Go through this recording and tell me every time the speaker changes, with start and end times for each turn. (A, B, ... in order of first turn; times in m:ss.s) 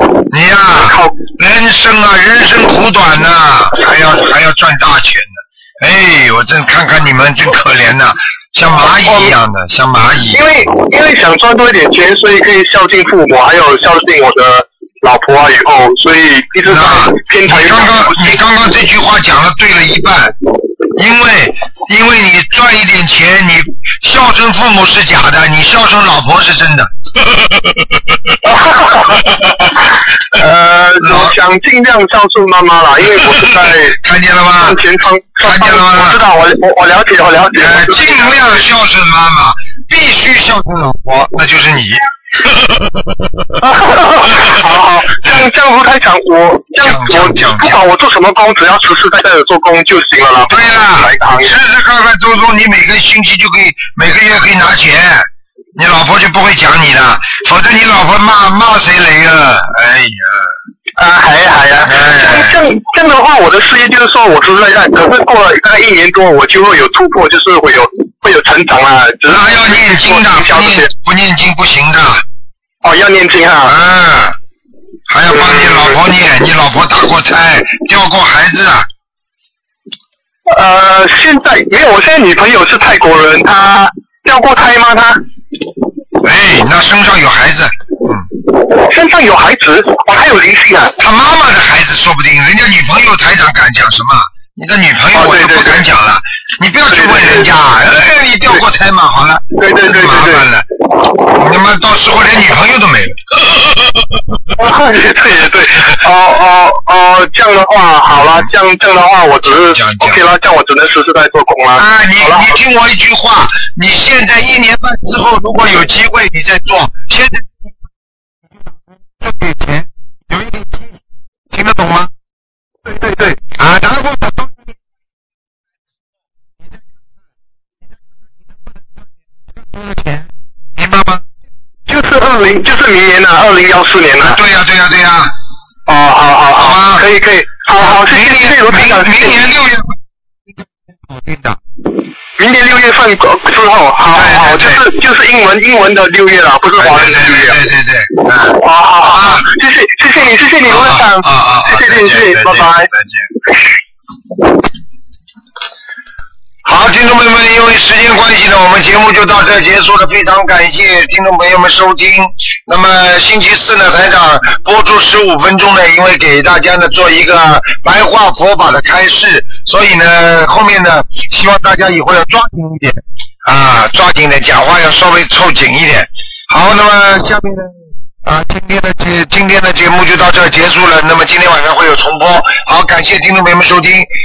0:00.3-0:10.4 A
0:00.7-0:01.2 B
0:09.0-0:09.4 B
0:10.3-0:18.4 B
0:16.6-0:20.4 A
0:21.0-0:27.8 A
0:28.4-0:29.3 B
0:30.3-0:34.0 B
0:31.0-0:31.4 A
0:33.2-0:34.8 A
0:34.6-0:38.6 B
0:35.4-0:36.2 A
0:37.6-0:43.2 A
0:43.6-0:51.6 B
0:46.8-0:47.8 A
0:50.5-1:00.5 A
1:01.0-1:10.9 B
1:01.8-1:02.6 A
1:09.3-1:12.2 A
1:12.8-1:13.7 B
1:13.7-1:14.4 A
1:15.1-1:18.9 A
1:15.3-1:16.0 B
1:20.5-1:25.2 B
1:26.2-1:28.3 A
1:28.7-1:31.0 B
1:31.0-1:40.7 A
1:35.1-1:35.9 B
1:36.9-1:37.5 B
1:39.6-1:40.5 B
1:41.2-1:44.1 A
1:44.6-1:52.5 B
1:48.1-1:48.5 A
1:49.4-1:50.2 A
1:51.8-1:57.7 A
1:59.1-2:01.0 A
2:01.5-2:02.1 A
2:02.9-2:04.7 A
2:09.6-2:11.2 A
2:11.9-2:14.4 B
2:14.2-2:15.3 A
2:15.9-2:19.4 B
2:16.6-2:17.1 A
2:17.8-2:20.0 A
2:21.1-2:21.6 A
2:22.4-2:27.6 B
2:24.1-2:24.9 A
2:26.8-2:29.5 A
2:28.5-2:32.9 B
2:30.7-2:33.3 A
2:36.6-3:04.1 A